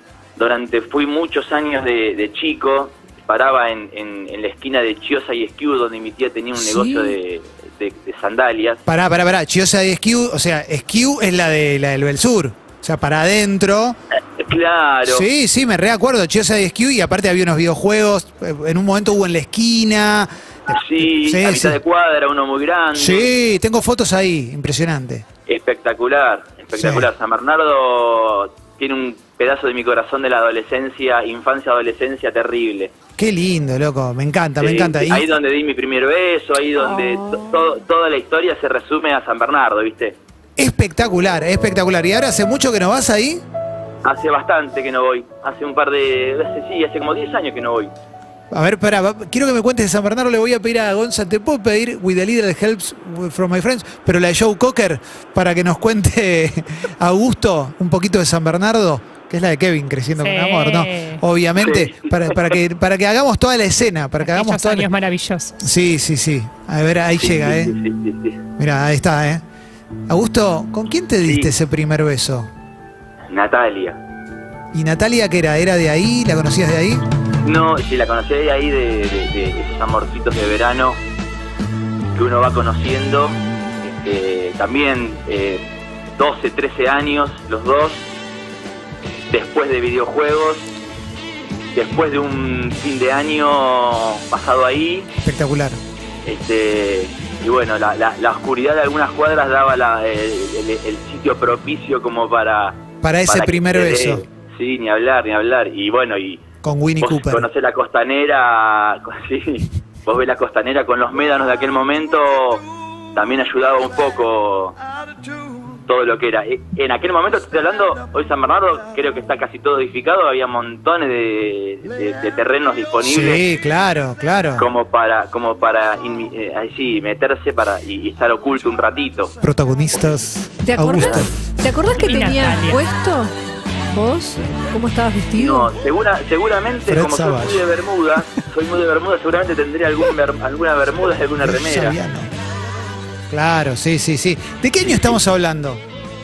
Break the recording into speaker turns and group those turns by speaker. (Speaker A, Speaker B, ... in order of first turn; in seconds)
Speaker A: 0.4-8.8, 14.4-15.3, 20.7-23.3, 25.5-32.9, 34.6-40.2, 44.0-47.9, 61.6-62.5, 67.2-68.4, 71.3-71.5, 73.3-74.0, 77.4-81.0, 82.1-83.4, 83.9-85.7, 86.2-88.0, 89.3-90.7, 91.7-95.1, 96.2-106.4, 107.0-114.8, 115.9-123.4, 124.6-129.3, 135.4-141.9, 144.8-145.2
Speaker B: 6.6-7.2, 130.6-133.3, 133.9-135.7
Speaker C: 8.9-14.0, 15.1-21.8, 22.9-25.2, 26.7-27.1, 33.2-35.3, 40.6-43.4, 48.5-64.9, 65.6-67.7, 68.6-69.4, 70.1-72.5, 74.7-77.0, 95.2-95.8, 103.0-104.2, 106.6-107.5, 123.0-124.7, 129.4-131.3, 136.9-137.6, 141.4-142.3, 143.3-145.8
Speaker D: 60.2-61.2, 64.2-65.6, 132.0-132.8